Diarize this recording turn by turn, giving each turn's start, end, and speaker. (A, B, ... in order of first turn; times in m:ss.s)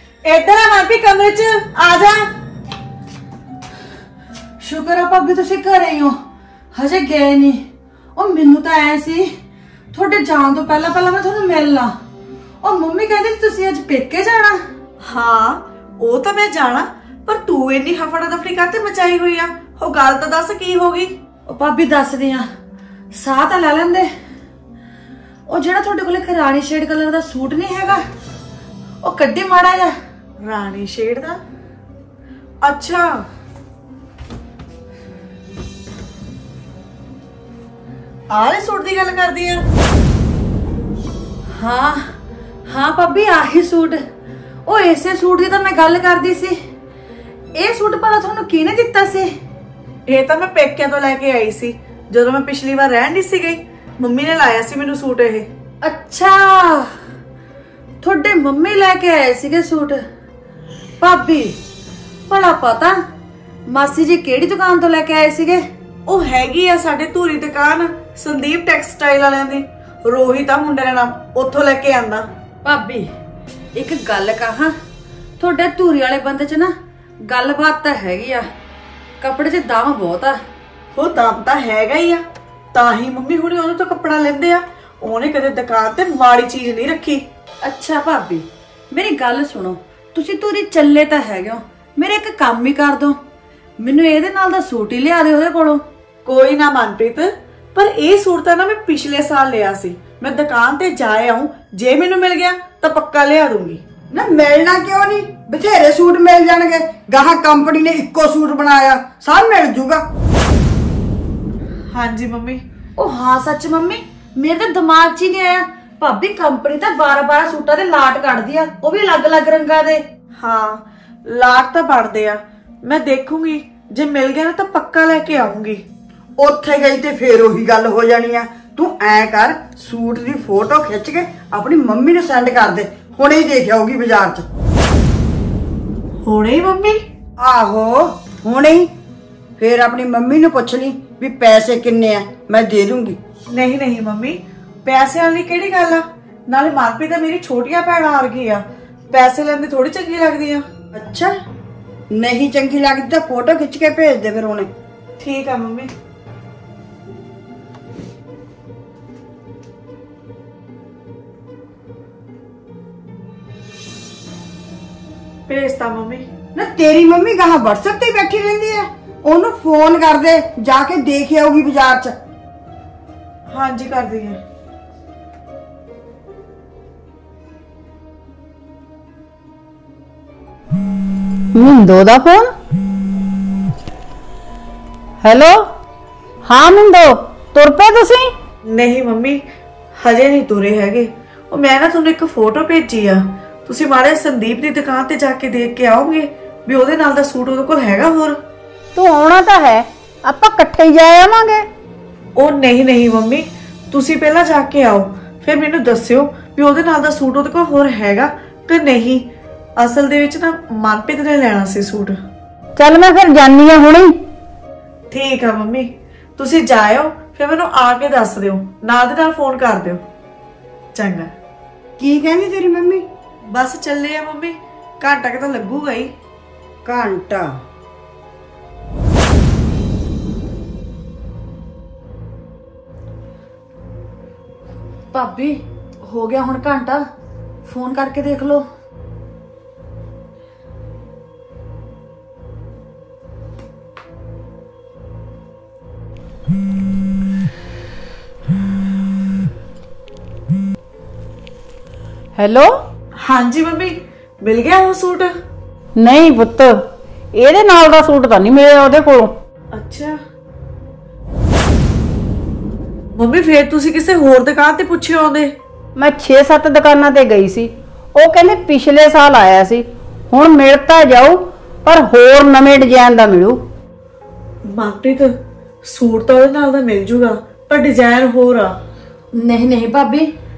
0:00.2-0:02.3 A
0:04.6-0:06.2 B
0:06.7-0:07.6 B
0:08.2-0:09.3 B
0:09.9-0:11.9 B
0:12.6-0:14.6 B
0:15.0-0:21.1 A
0:21.5-0:22.5 B
0:23.1-0:24.1 B
0:25.5-0:28.0 B
0:29.0-0:30.0 B
0:30.4-0:31.4 A
0:32.6-0:33.1 A
0:38.3-0:39.6 A
0:41.5-0:42.0 B
0:42.7-0:44.0 B
0:44.7-0:46.6 B
0:47.6-0:49.3 B
0:50.1-0:55.5 A
0:55.8-0:56.8 B
0:58.0-1:00.0 B
1:01.0-1:01.6 B
1:02.3-1:03.0 B
1:03.7-1:05.6 B
1:06.1-1:12.3 A
1:12.6-1:13.1 B
1:13.8-1:14.7 B
1:15.4-1:16.7 B
1:17.3-1:18.5 B
1:19.2-1:20.4 B
1:21.0-1:22.2 A
1:22.7-1:27.2 A
1:27.6-1:33.2 B
1:33.8-1:35.8 B
1:36.3-1:43.8 A
1:44.1-1:50.0 C
1:51.9-1:52.6 A
1:53.0-2:00.0 B
2:00.4-2:05.8 A
2:06.4-2:14.5 C
2:16.2-2:17.0 A
2:17.4-2:18.9 C
2:19.6-2:23.2 C
2:23.5-2:30.6 A
2:30.9-2:31.3 C
2:32.1-2:34.7 C
2:35.2-2:35.9 A
2:45.5-2:46.3 A
2:46.6-2:52.2 C
2:53.5-2:54.4 A
3:01.6-3:02.5 D
3:05.2-3:05.7 D
3:06.4-3:08.3 D
3:08.6-3:09.4 A
3:10.0-3:18.4 A
3:19.0-3:21.7 D
3:22.4-3:29.3 A
3:29.8-3:32.2 A
3:32.8-3:34.1 D
3:35.1-3:40.0 A
3:41.0-3:41.3 A
3:42.0-3:43.0 C
3:43.5-3:46.1 A
3:46.8-3:47.5 C
3:55.1-3:57.0 B
3:57.7-3:58.6 B
4:12.4-4:12.7 D
4:13.2-4:15.3 A
4:16.0-4:16.8 D
4:17.4-4:19.3 D
4:19.7-4:20.2 A
4:23.1-4:25.5 A
4:26.0-4:33.6 D
4:34.7-4:35.3 A
4:35.9-4:38.8 A
4:39.3-4:40.3 B